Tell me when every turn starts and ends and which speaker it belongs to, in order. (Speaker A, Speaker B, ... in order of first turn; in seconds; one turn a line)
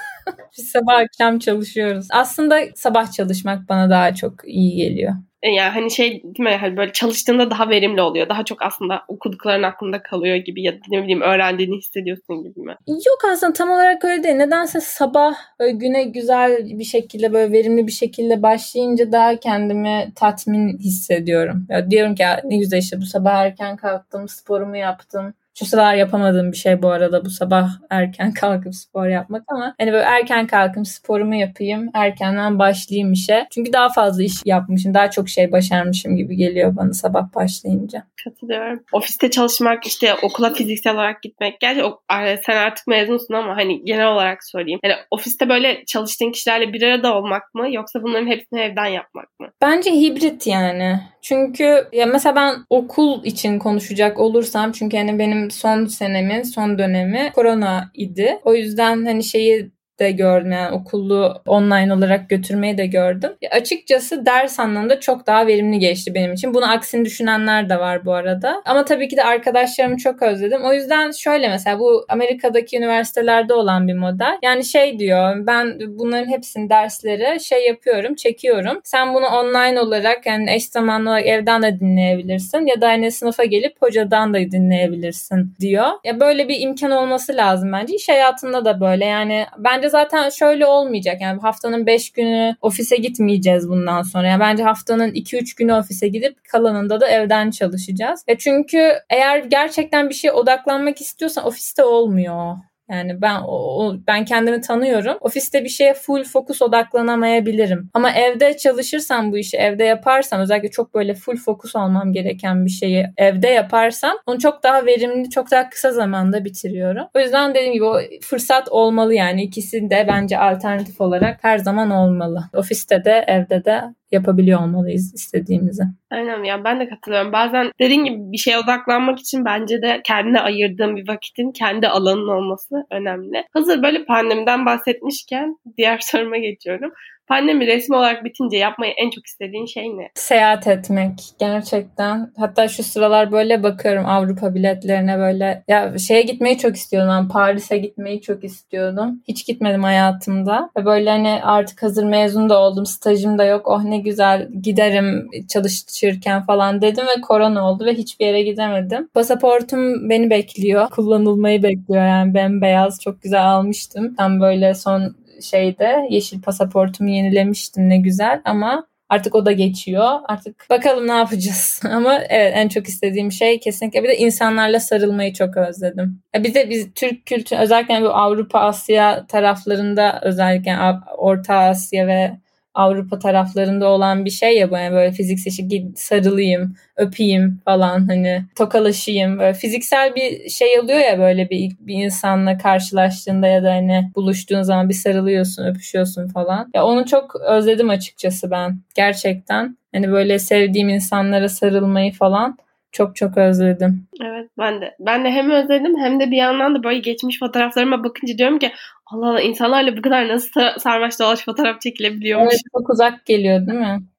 Speaker A: 0.5-5.2
Speaker B: 5.4-12.8
Speaker A: 12.9-38.0
Speaker B: 38.2-49.5
Speaker A: 49.6-125.9
Speaker B: 126.1-140.1
Speaker A: 140.2-204.1
Speaker B: 204.2-212.6
Speaker A: 212.3-214.0